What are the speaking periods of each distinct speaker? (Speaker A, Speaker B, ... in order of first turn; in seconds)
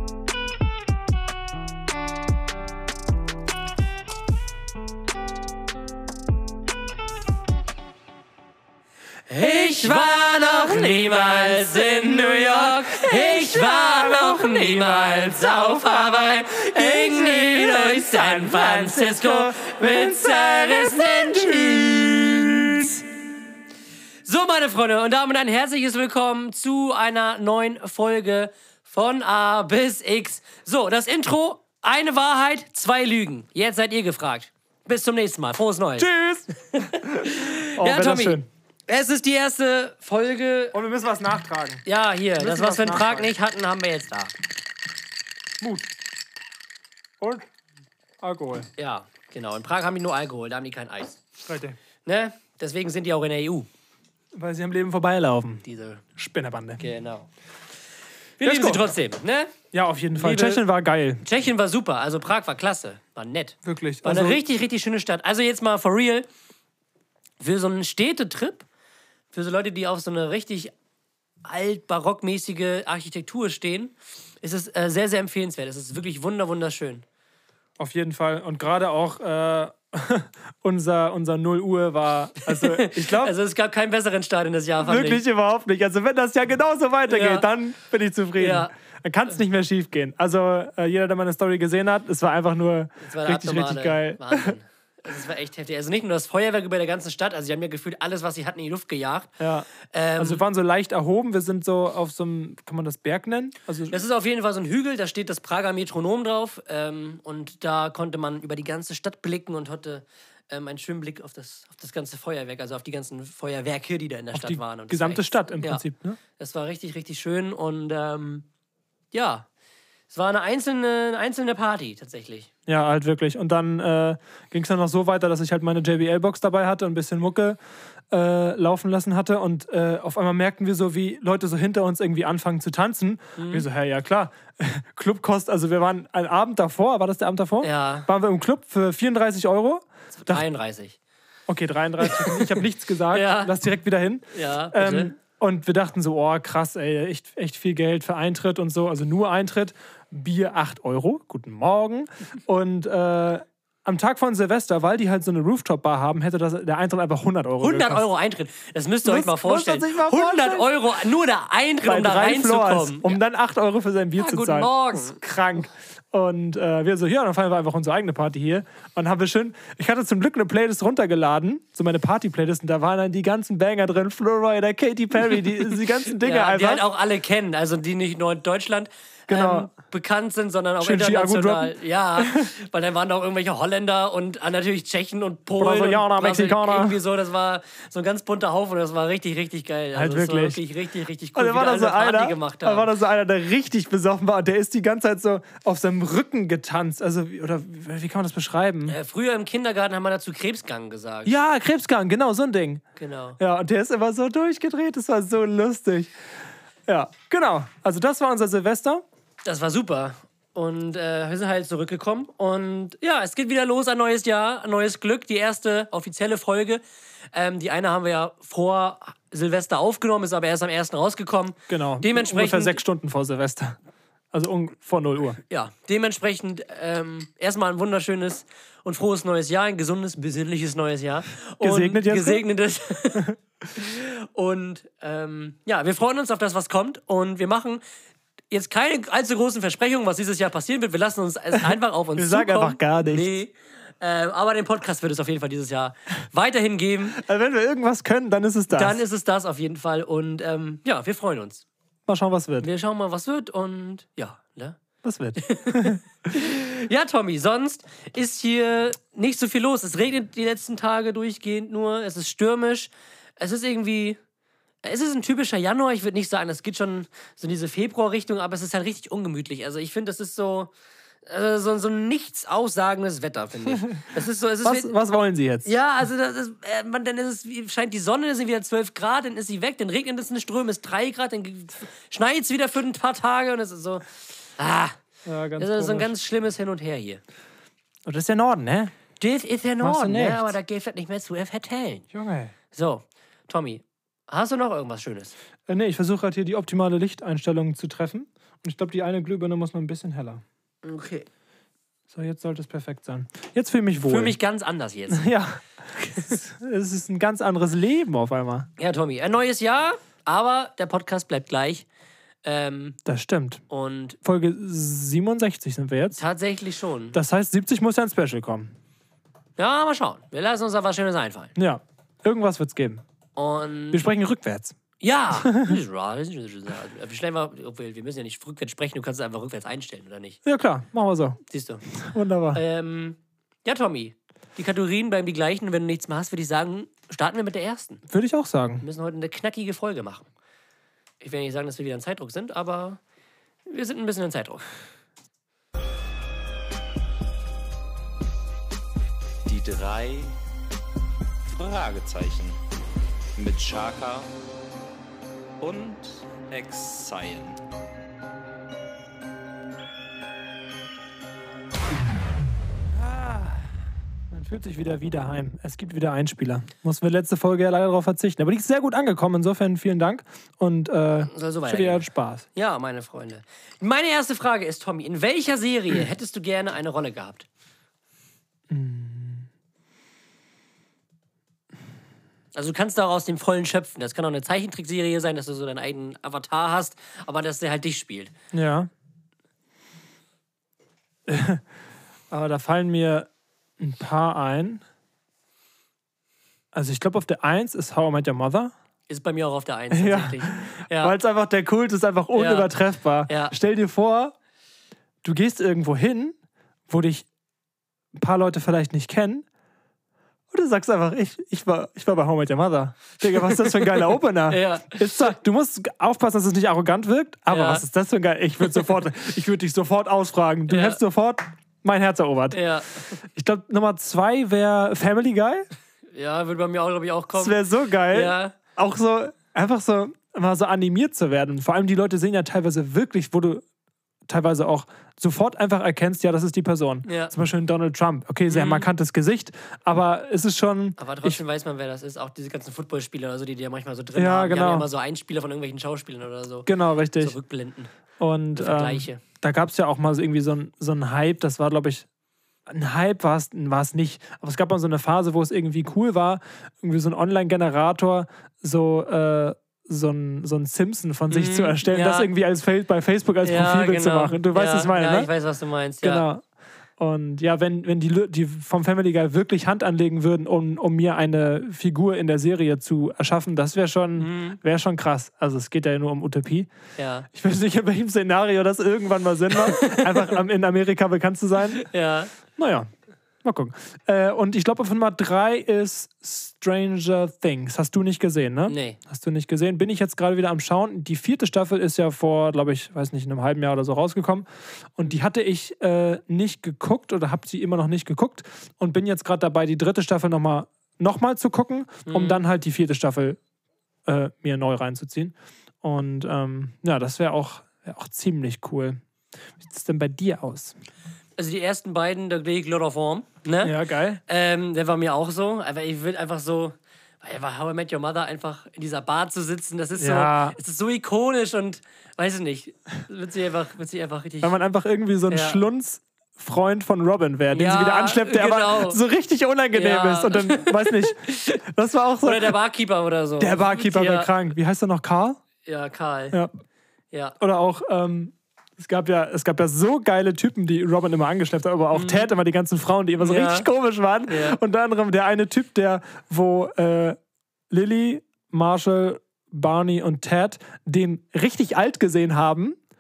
Speaker A: 9.3-23.0, 24.3-36.1, 36.7-40.8, 41.9-44.3, 48.8-51.2, 52.0-53.7, 55.6-56.0, 56.8-57.3, 58.4-59.5, 60.2-60.6, 61.2-66.3, 67.4-68.7, 69.3-70.7, 71.5-77.0, 82.5-85.2, 87.1-87.5, 88.4-88.7, 93.0-100.4, 103.9-115.8, 116.4-118.5, 119.1-119.5, 120.1-122.5, 133.4-133.7, 137.6-138.1, 140.1-141.0, 142.0-143.5, 144.3-145.1, 157.6-163.2, 164.2-165.2, 175.8-192.9, 198.9-201.4, 203.0-203.4, 209.4-222.8, 225.5-237.8, 238.5-247.2, 248.7-251.7, 252.6-254.8, 255.4-264.2, 264.8-270.7, 271.2-274.9, 275.6-285.0, 285.6-287.2, 289.2-292.1, 292.7-295.4, 300.8-301.3, 304.0-305.3, 306.0-306.3, 308.8-311.9, 312.4-313.0, 313.7-314.2, 316.1-317.2, 319.6-321.5, 323.4-324.1, 325.0-330.4, 331.5-331.9, 332.5-338.0, 338.8-340.3, 341.2-343.0, 343.7-344.7, 371.2-377.5, 382.5-388.3, 399.1-401.1, 402.3-402.7, 403.3-403.5, 413.3-415.0, 417.5-417.9, 420.7-421.0, 422.5-423.1, 426.1-428.6, 437.0-437.3, 438.5-438.9, 441.0-447.9, 448.5-449.2, 461.3-462.3, 463.4-466.3, 474.2-474.6, 477.0-477.3, 479.6-480.4, 481.8-482.3, 488.7-489.0, 502.1-502.4, 511.4-524.6, 525.3-525.6, 527.5-529.0, 529.7-531.6, 532.2-534.3, 535.6-536.4, 537.1-537.4, 541.9-542.3, 543.2-543.7, 544.3-544.6
Speaker B: 9.8-15.9, 16.7-23.0, 36.0-38.5, 40.7-43.3, 45.6-45.9, 47.2-47.5, 48.2-48.7, 51.5-51.8, 54.3-55.6, 56.2-56.8, 58.4-58.9, 59.7-61.2, 63.6-64.4, 77.8-83.3, 84.8-94.6, 99.4-104.0, 114.3-116.2, 122.7-127.6, 128.1-140.4, 141.5-158.1, 159.0-160.7, 161.8-176.9, 179.3-179.7, 180.8-182.5, 185.6-187.0, 189.9-190.6, 191.3-199.0, 201.2-202.8, 203.4-206.1, 206.9-209.0, 221.7-223.8, 224.3-225.4, 231.6-232.4, 242.2-243.3, 247.2-249.0, 252.1-252.7, 255.0-256.0, 274.6-275.7, 285.2-286.1, 288.1-288.9, 289.8-290.6, 292.1-292.5, 295.7-300.4, 302.1-304.4, 305.1-308.7, 313.1-313.6, 314.2-316.2, 317.1-318.8, 321.6-323.0, 323.9-324.8, 325.3-325.8, 330.4-331.4, 331.9-332.6, 338.1-338.8, 362.9-363.7, 364.3-372.5, 378.7-379.5, 388.5-388.9, 391.3-391.6, 392.3-394.8, 396.7-398.7, 399.9-404.4, 405.2-406.4, 406.9-407.3, 408.1-409.4, 410.5-422.6, 423.2-425.7, 427.3-433.6, 434.3-441.4, 444.1-444.9, 446.7-447.4, 448.2-452.1, 452.7-465.3, 466.0-466.4, 467.0-476.7, 477.3-481.9, 482.6-482.9, 483.4-503.4, 504.1-509.0, 509.6-510.8, 513.6-514.2, 520.0-520.6, 524.4-532.5, 533.4-535.4, 537.4-547.2, 547.7-552.8
Speaker C: 349.5-350.4, 351.5-352.6, 353.4-354.3, 355.6-357.6